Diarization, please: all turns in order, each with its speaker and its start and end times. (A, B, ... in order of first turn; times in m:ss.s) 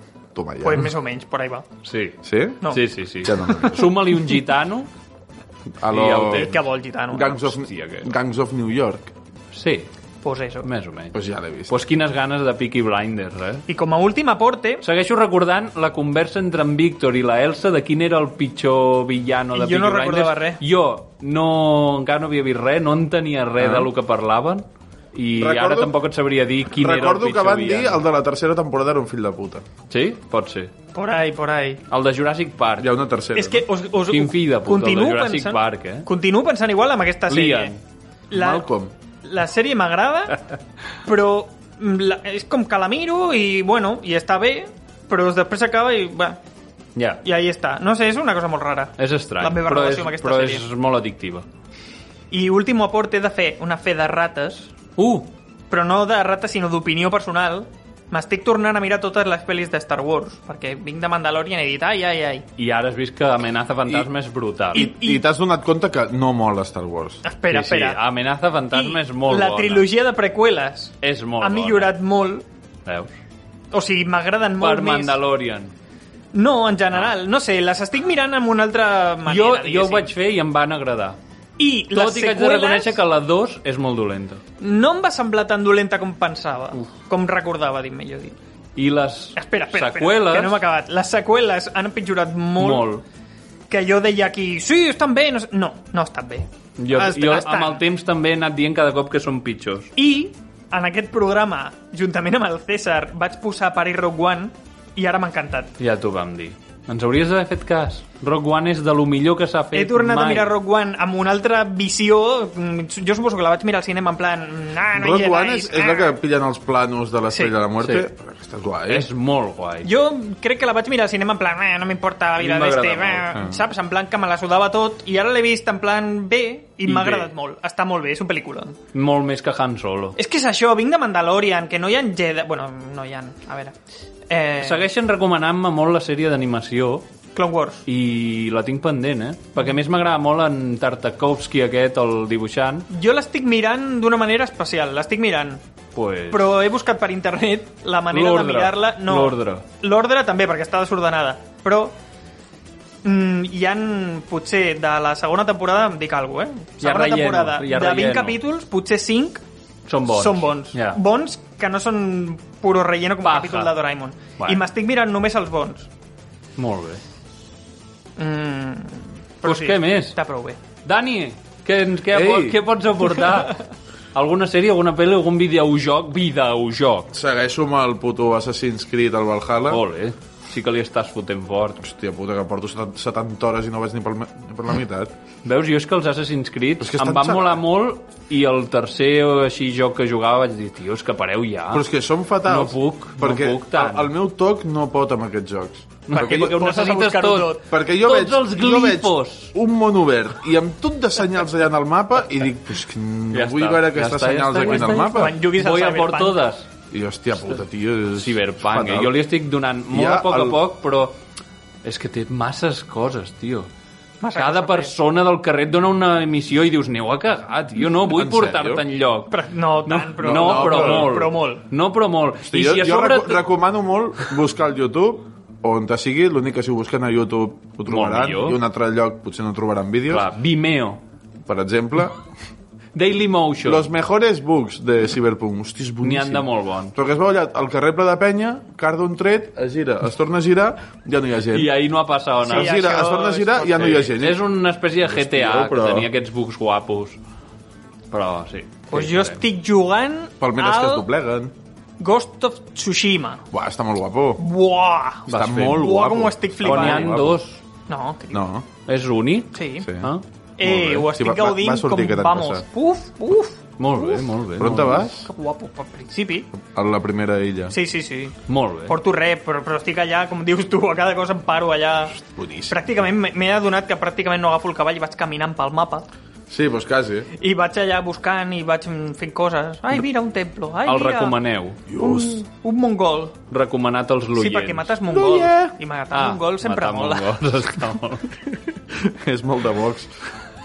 0:00.4-0:00.9 A
0:00.6-0:01.7 B
0:01.8-0:04.9 C
0:02.2-0:04.0 A
0:05.8-0:06.6 A
0:05.9-0:06.5 C
0:06.3-0:07.4 B
0:07.1-0:09.1 A
0:07.5-0:08.1 C
0:09.5-0:09.9 C
0:10.2-0:10.7 B
0:10.6-0:11.2 C
0:11.1-0:11.8 A
0:11.7-0:13.6 C
0:13.7-0:14.8 B
0:14.8-0:28.0 C
0:19.5-0:20.6 B
0:23.6-0:23.9 A
0:25.4-0:26.0 A
0:26.8-0:29.6 A
0:29.9-0:30.7 C
0:30.9-0:31.8 B
0:31.9-0:32.9 C
0:32.8-0:33.7 A
0:33.4-0:37.7 B
0:34.1-0:36.1 C
0:37.3-0:37.8 C
0:38.3-0:38.7 B
0:38.3-0:38.9 A
0:39.2-0:40.4 B
0:41.1-0:46.4 B
0:47.0-0:47.2 C
0:47.2-0:50.7 B
0:49.0-0:51.5 C
0:52.3-0:54.7 B
0:55.0-0:55.3 C
0:55.7-1:02.5 B
1:02.6-1:04.9 C
1:04.7-1:07.2 A
1:04.7-1:05.2 B
1:07.2-1:08.0 B
1:07.5-1:09.9 C
1:08.7-1:12.4 B
1:11.0-1:12.0 C
1:12.9-1:13.1 C
1:13.7-1:15.2 B
1:14.6-1:15.7 C
1:16.3-1:20.1 B
1:19.3-1:21.2 C
1:21.6-1:23.0 B
1:21.9-1:24.4 C
1:24.6-1:28.4 B
1:28.8-1:30.6 C
1:29.4-1:32.9 B
1:32.6-1:33.0 C
1:33.7-1:37.8 B
1:36.8-1:39.9 C
1:40.0-1:45.7 B
1:45.8-1:50.6 C
1:49.7-1:56.2 B
1:54.9-1:59.1 A
1:57.8-1:58.1 C
1:58.9-1:59.9 C
1:59.8-2:08.8 B
2:02.4-2:03.4 C
2:06.9-2:07.3 C
2:08.9-2:10.2 C
2:10.2-2:13.8 B
2:14.3-2:14.8 B
2:14.6-2:17.1 C
2:17.4-2:17.8 B
2:17.9-2:22.9 C
2:22.9-2:25.6 B
2:26.0-2:26.6 C
2:26.3-2:32.0 B
2:28.1-2:29.6 C
2:33.0-2:39.4 B
2:36.8-2:38.4 C
2:39.9-2:41.0 C
2:40.1-2:45.9 B
2:43.2-2:43.7 C
2:46.6-2:47.0 C
2:48.2-2:50.6 B
2:49.4-2:50.2 C
2:50.8-2:53.6 C
2:52.1-2:52.6 A
2:54.1-2:57.1 C
2:57.1-2:59.8 A
2:59.7-3:01.8 C
3:01.8-3:05.1 A
3:05.4-3:11.8 C
3:06.8-3:07.6 A
3:11.7-3:16.7 A
3:12.4-3:14.1 C
3:16.1-3:19.5 C
3:16.1-3:17.7 B
3:17.7-3:25.4 A
3:23.3-3:26.7 C
3:24.7-3:26.4 B
3:26.9-3:29.3 A
3:28.2-3:31.2 C
3:29.9-3:30.6 A
3:31.8-3:33.7 C
3:34.2-3:34.9 B
3:34.4-3:43.5 C
3:37.9-3:38.8 A
3:39.3-3:41.6 B
3:40.2-3:41.2 A
3:42.4-3:50.3 A
3:47.9-3:48.6 C
3:50.1-3:51.0 C
3:51.5-3:52.2 A
3:53.0-3:53.9 C
3:53.6-4:01.7 A
3:56.0-3:57.0 C
4:01.5-4:03.1 C
4:02.4-4:04.5 A
4:02.4-4:04.1 B
4:03.7-4:07.2 C
4:05.0-4:06.1 A
4:08.1-4:09.4 C
4:08.9-4:11.1 B
4:10.4-4:11.5 A
4:12.0-4:13.4 B
4:13.5-4:14.4 A
4:14.4-4:17.2 B
4:15.3-4:17.4 A
4:15.3-4:15.8 C
4:16.6-4:17.6 C
4:17.9-4:18.4 B
4:18.3-4:18.7 A
4:18.9-4:20.2 C
4:19.5-4:19.9 B
4:19.8-4:20.1 A
4:20.6-4:24.2 B
4:20.6-4:22.7 A
4:23.8-4:25.1 C
4:24.6-4:25.3 A
4:25.1-4:26.5 B
4:26.5-4:27.8 A
4:27.7-4:36.1 B
4:28.5-4:29.0 C
4:32.2-4:32.8 A
4:36.5-4:37.3 A
4:37.4-4:41.4 B
4:40.9-4:41.8 C
4:41.9-4:42.4 A
4:42.0-4:43.4 B
4:43.5-4:44.9 C
4:44.4-4:47.3 B
4:45.1-4:45.7 A
4:46.1-4:48.3 C
4:48.5-4:50.1 A